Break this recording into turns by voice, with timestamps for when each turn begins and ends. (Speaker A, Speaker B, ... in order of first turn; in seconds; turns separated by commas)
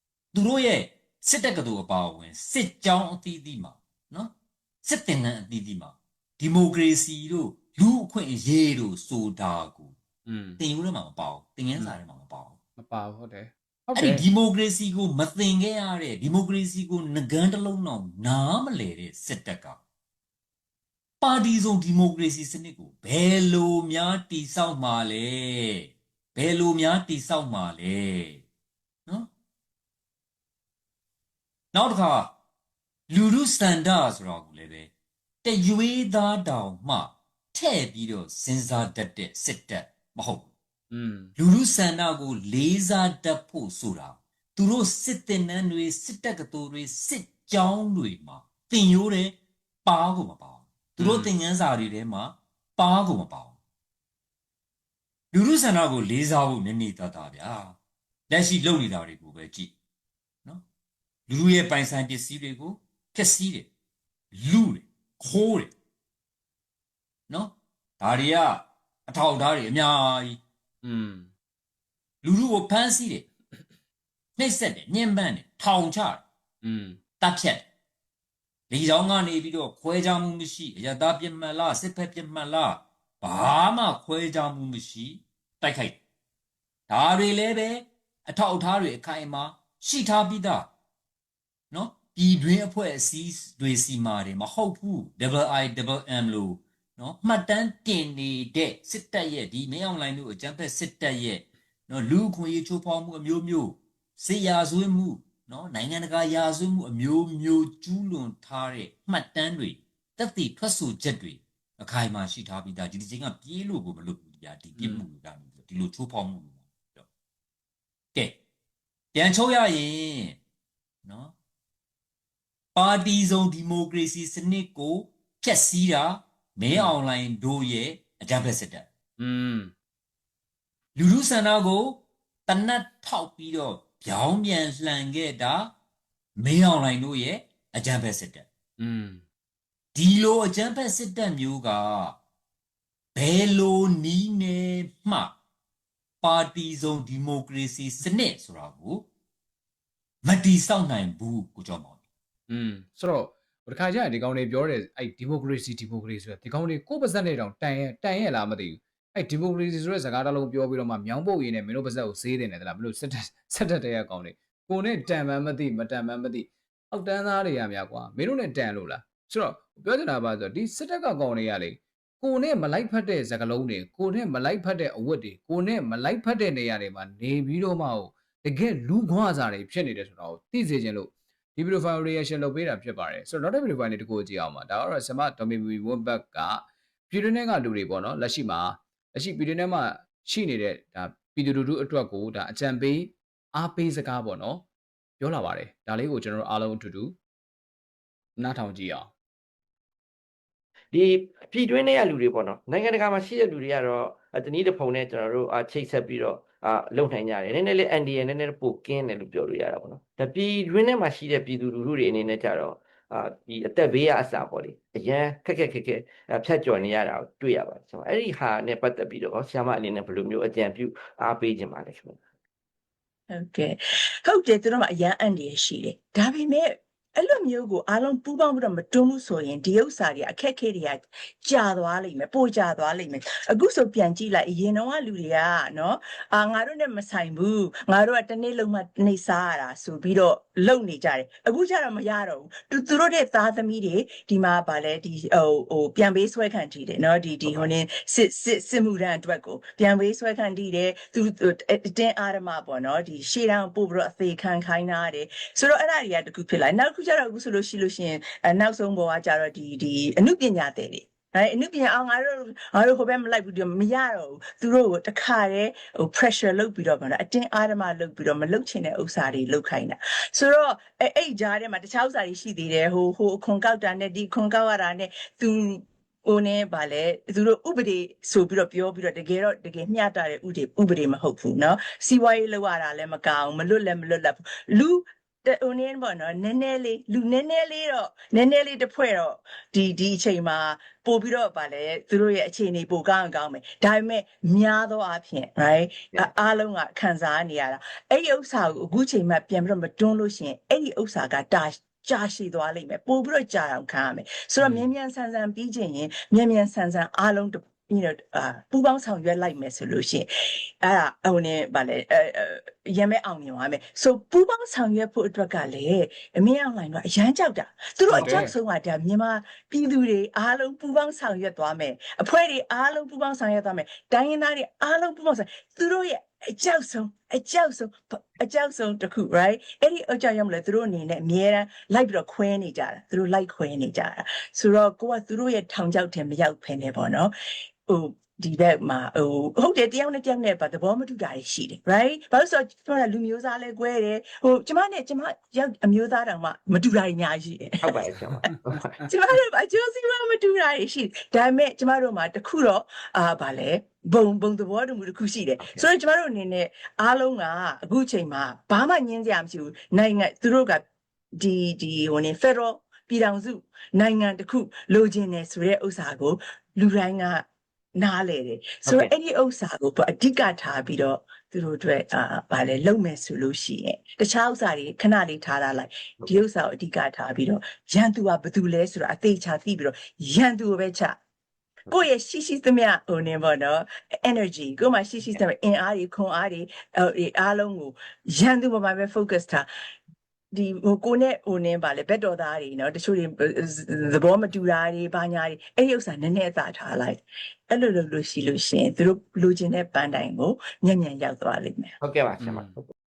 Speaker A: 0.3-9.9, Speaker B: 10.3-10.6, Speaker A: 10.6-12.6, Speaker B: 12.8-14.3, Speaker A: 13.9-19.8, Speaker A: 21.2-28.4, Speaker A: 31.7-32.3, Speaker A: 33.1-34.9, Speaker A: 35.4-40.5, Speaker B: 40.9-41.3, Speaker A: 41.4-53.6, Speaker B: 51.0-51.3, Speaker A: 55.3-57.8, Speaker A: 58.3-59.7, Speaker A: 61.3-63.7, Speaker A: 64.3-65.7, Speaker A: 67.3-70.4, Speaker B: 70.8-71.3, Speaker A: 72.2-73.2, Speaker A: 74.4-76.2, Speaker B: 76.6-77.0, Speaker A: 77.2-77.7, Speaker A: 78.7-86.0, Speaker A: 86.9-90.7, Speaker A: 91.7-117.1, Speaker B: 114.8-115.0, Speaker A: 118.1-118.4, Speaker A: 119.1-120.4, Speaker A: 121.0-121.3, Speaker A: 122.7-128.9, Speaker B: 126.7-127.0, Speaker B: 129.2-129.7, Speaker A: 130.9-135.7, Speaker A: 136.4-138.5, Speaker B: 138.8-139.2, Speaker A: 139.9-142.2, Speaker A: 143.1-145.4, Speaker A: 146.2-149.1, Speaker A: 150.2-152.0, Speaker B: 152.5-194.6, Speaker B: 195.2-197.1, Speaker B: 198.4-199.1, Speaker C: 200.9-222.2, Speaker D: 223.3-337.3, Speaker C: 247.4-247.7, Speaker C: 304.6-304.9, Speaker B: 318.1-318.5, Speaker D: 337.9-347.9, Speaker C: 347.8-349.1, Speaker D: 349.1-360.8, Speaker C: 355.6-355.9, Speaker D: 361.4-367.4, Speaker D: 368.0-381.1, Speaker C: 368.8-369.1, Speaker D: 381.9-389.6, Speaker D: 390.5-401.9, Speaker C: 402.0-402.9, Speaker B: 402.4-402.8